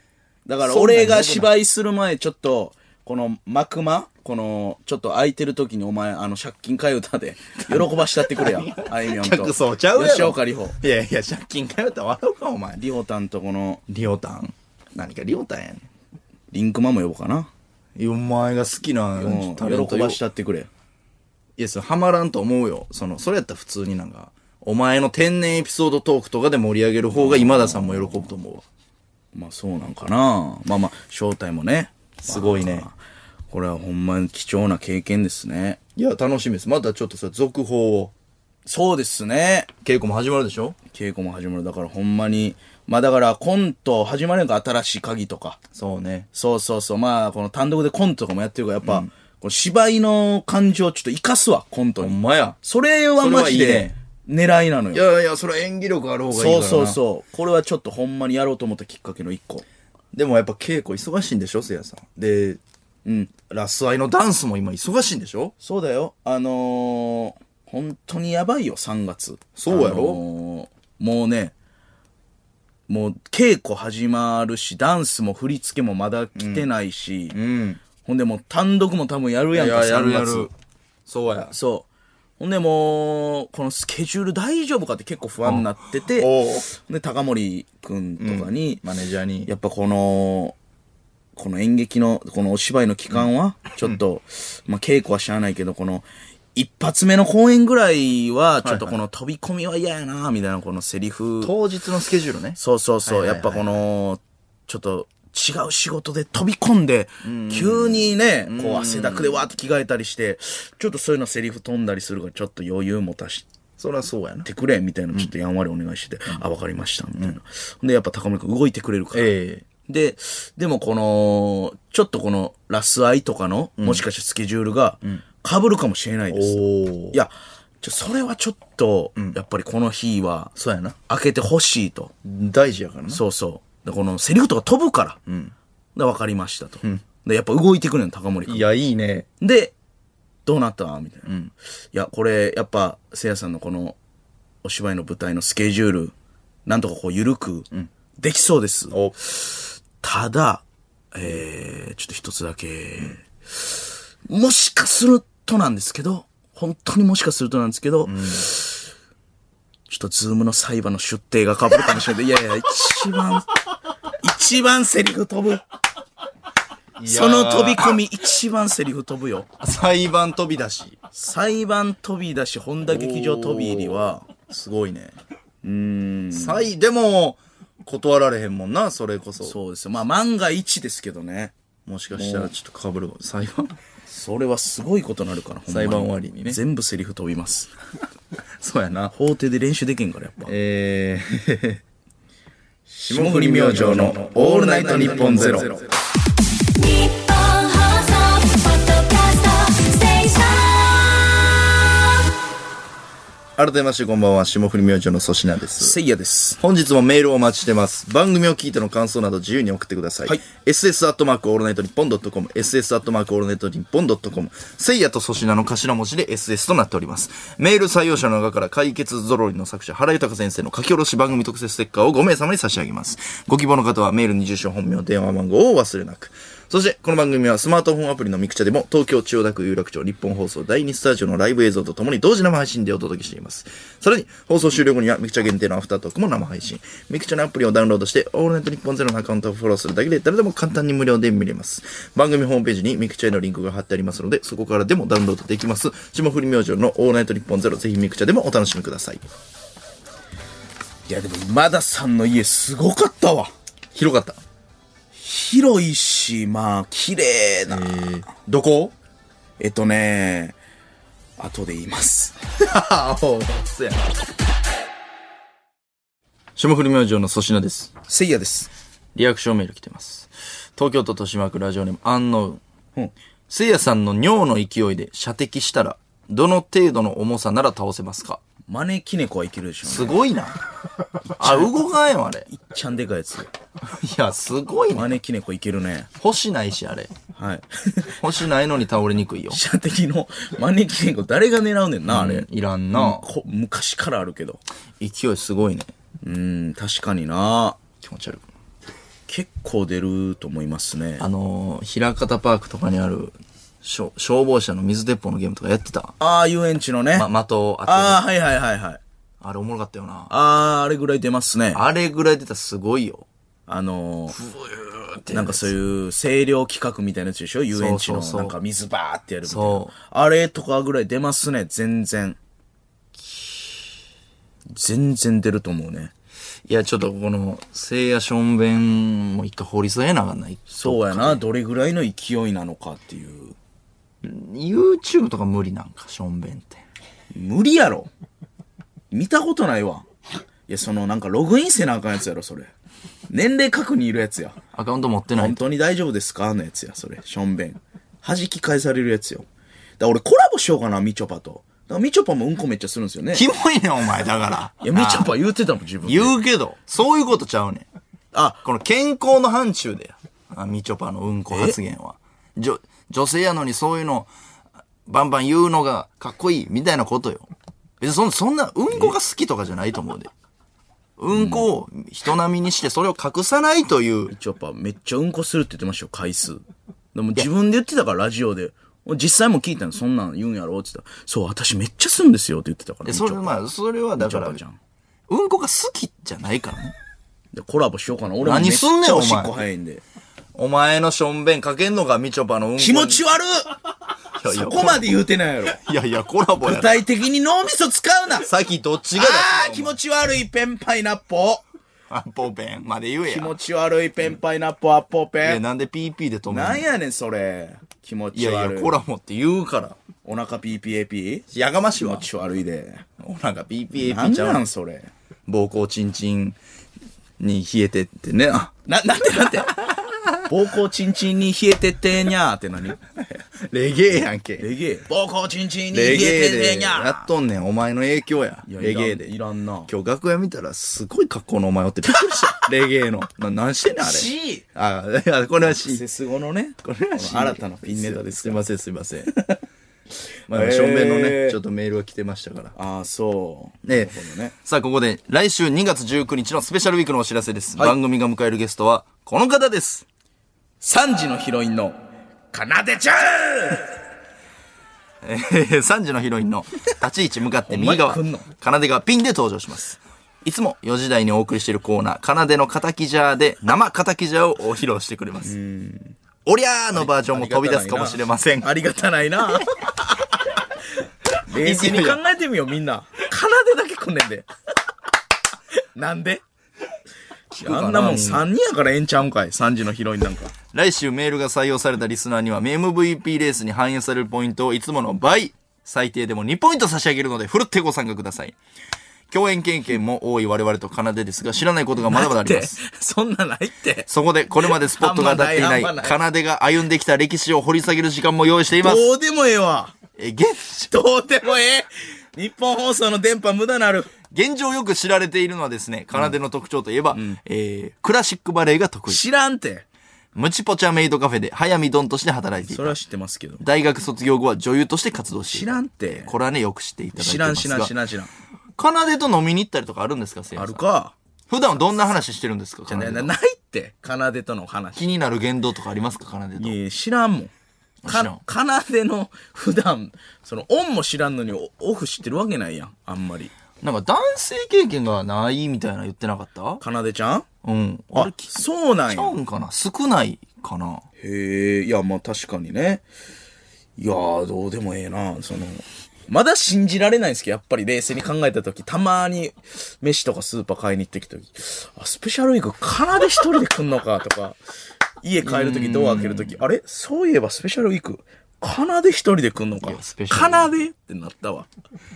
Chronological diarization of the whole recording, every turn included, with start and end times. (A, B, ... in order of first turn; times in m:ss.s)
0:00.4-0:10.8 A
0:00.6-0:01.5 B
0:07.6-0:12.8 B
0:12.8-0:13.8 A
0:13.9-0:15.8 B
0:16.5-0:17.5 A
0:18.0-0:20.2 B
0:19.2-0:20.7 A
0:21.6-0:28.6 B
0:27.1-0:28.3 A
0:29.3-0:33.0 A
0:32.2-0:32.9 B
0:33.5-0:35.8 A
0:36.0-0:38.1 B
0:38.6-0:39.7 A
0:39.8-0:40.8 B
0:40.9-0:45.6 A
0:45.7-0:46.3 B
0:46.3-0:55.0 A
0:48.8-0:49.1 B
0:52.0-0:52.6 B
0:53.2-0:53.9 B
0:54.9-0:57.0 B
0:56.3-0:59.6 A
1:00.1-1:02.6 B
1:03.0-1:03.3 A
1:03.5-1:05.5 B
1:05.6-1:11.5 A
1:09.6-1:10.2 B
1:12.9-1:17.4 A
1:16.3-1:16.7 B
1:17.3-1:17.8 B
1:18.0-1:20.5 A
1:19.5-1:20.5 B
1:21.1-1:21.5 B
1:21.5-1:21.9 A
1:22.4-1:28.8 A
1:25.4-1:26.7 B
1:28.2-1:29.5 B
1:29.4-1:30.6 A
1:31.3-1:41.5 A
1:38.6-1:39.0 B
1:41.4-1:43.8 B
1:42.6-1:53.4 A
1:47.2-1:49.4 B
1:53.8-1:54.5 B
1:54.4-1:59.3 A
1:59.1-1:59.6 B
1:59.9-2:10.5 A
2:03.8-2:04.0 B
2:06.3-2:07.2 B
2:10.6-2:11.0 B
2:11.1-2:12.1 A
2:12.2-2:13.2 B
2:13.1-2:15.2 A
2:15.2-2:15.5 B
2:15.9-2:18.7 A
2:18.5-2:19.3 B
2:19.4-2:19.7 A
2:20.4-2:21.3 A
2:21.2-2:21.5 B
2:21.9-2:24.0 A
2:24.6-2:26.1 A
2:26.6-2:27.7 A
2:28.2-2:38.9 A
2:38.0-2:38.5 B
2:39.9-2:43.5 A
2:44.1-2:45.6 A
2:47.0-2:48.0 B
2:47.0-2:49.5 A
2:49.6-2:51.0 B
2:51.1-2:54.2 A
2:52.8-2:55.2 B
2:55.6-2:56.7 A
2:56.3-2:59.6 B
2:59.4-3:01.5 A
3:01.8-3:03.7 B
3:02.1-3:02.5 A
3:04.1-3:07.7 A
3:05.7-3:06.6 B
3:08.6-3:09.1 B
3:09.1-3:10.5 A
3:10.4-3:11.8 B
3:12.9-3:15.9 A
3:12.9-3:15.8 B
3:16.8-3:21.6 C
3:23.6-3:26.0 B
3:25.8-3:26.6 A
3:26.6-4:09.2 B
4:11.1-4:13.5 A
4:13.9-4:14.4 B
4:15.1-4:18.0 A
4:17.7-4:18.9 B
4:19.6-4:20.6 A
4:21.4-4:22.4 A
4:22.6-4:24.1 B
4:26.6-4:27.9 B
4:28.1-4:28.7 A
4:29.1-4:32.6 B
4:33.5-4:38.4 B
4:38.7-4:40.2 A
4:39.8-4:40.6 B
4:41.4-4:42.5 B
4:41.4-4:41.7 A
4:42.5-4:43.5 A
4:43.8-4:45.2 B
4:44.9-4:46.1 A
4:46.2-4:47.1 B
4:47.3-4:48.1 A
4:48.2-4:49.6 B
4:49.5-4:54.6 A
4:52.1-4:53.3 B
4:55.0-4:55.9 B
4:56.2-4:57.8 A
4:58.0-4:58.4 B
4:59.3-5:01.2 A
5:01.2-5:06.1 B
5:06.2-5:07.3 A
5:07.1-5:08.2 B
5:07.8-5:09.0 A
5:09.4-5:10.3 B
5:10.3-5:11.8 A
5:11.7-5:13.3 B
5:13.7-5:14.4 A
5:14.3-5:15.7 B
5:15.3-5:22.4 A
5:17.7-5:18.6 B
5:19.4-5:19.9 B
5:23.2-5:23.5 B
5:24.7-5:26.1 A
5:26.7-5:31.4 B
5:30.7-5:33.6 A
5:34.2-5:36.8 B
5:37.3-5:38.1 A
5:39.1-5:40.0 A
5:40.7-5:42.7 A
5:43.3-5:44.6 A
5:44.7-5:45.6 B
5:45.3-5:49.5 A
5:50.0-5:53.4 A
5:53.3-5:55.3 B
5:54.8-5:56.4 A
5:56.0-5:57.8 B
5:58.3-5:58.6 A
5:58.6-6:04.3 B
6:01.5-6:01.8 A
6:05.1-6:07.5 B
6:08.0-6:10.3 B
6:08.9-6:09.2 A
6:11.2-6:14.3 B
6:11.3-6:11.7 A
6:14.3-6:23.6 A
6:23.0-6:24.6 B
6:24.2-6:24.8 A
6:25.3-6:26.9 B
6:27.5-6:30.0 A
6:28.4-6:29.6 B
6:30.5-6:33.2 B
6:32.8-6:33.8 A
6:34.4-6:35.2 B
6:34.4-6:35.8 A
6:35.7-6:37.0 B
6:36.6-6:38.5 A
6:38.4-6:40.0 B
6:39.1-6:41.6 A
6:42.1-6:43.6 B
6:43.2-6:45.6 A
6:45.4-6:46.9 B
6:46.5-6:48.9 A
6:48.3-6:50.0 B
6:50.2-6:53.0 A
6:51.5-6:52.2 B
6:53.2-6:54.6 B
6:54.0-6:55.1 A
6:55.5-6:56.6 B
6:57.4-6:58.7 B
6:58.8-6:59.7 A
6:59.9-7:00.2 B
7:00.5-7:03.0 A
7:03.2-7:04.7 B
7:04.6-7:07.3 A
7:05.9-7:09.4 B
7:08.6-7:09.9 A
7:09.9-7:16.0 B
7:12.1-7:12.6 A
7:14.0-7:14.6 A
7:15.7-7:18.6 A
7:16.8-7:19.4 B
7:20.5-7:21.6 A
7:20.5-7:22.8 B
7:22.8-7:24.5 A
7:23.8-7:30.0 B
7:30.8-7:32.0 A
7:32.5-7:33.9 A
7:35.2-7:45.6 B
7:37.6-7:38.5 A
7:45.4-7:46.2 A
7:46.4-7:48.7 B
7:46.9-7:54.5 A
7:51.5-7:52.2 B
7:55.8-7:56.4 A
7:57.5-7:58.5 B
7:57.6-8:00.5 A
8:00.7-8:08.5 B
8:09.3-8:12.8 B
8:12.0-8:16.2 A
8:14.1-8:19.0 B
8:18.8-8:19.9 A
8:20.2-8:21.0 B
8:20.9-8:24.1 A
8:24.3-8:29.2 B
8:27.1-8:27.4 A
8:29.1-8:29.8 A
8:30.3-8:33.0 B
8:32.7-8:33.6 A
8:33.6-8:38.0 B
8:35.5-8:36.3 A
8:37.2-8:38.3 A
8:38.8-8:40.8 B
8:40.5-8:41.1 A
8:41.5-8:43.3 B
8:42.9-8:45.1 A
8:45.0-8:46.8 B
8:46.6-8:47.5 A
8:48.0-8:48.4 B
8:48.0-8:53.5 A
8:53.8-8:56.8 B
8:56.8-8:57.4 A
8:57.6-9:01.0 B
8:58.1-8:59.4 A
9:01.2-9:03.0 A
9:04.0-9:14.6 A
9:15.2-9:21.7 A
9:15.4-9:16.6 B
9:19.8-9:20.7 B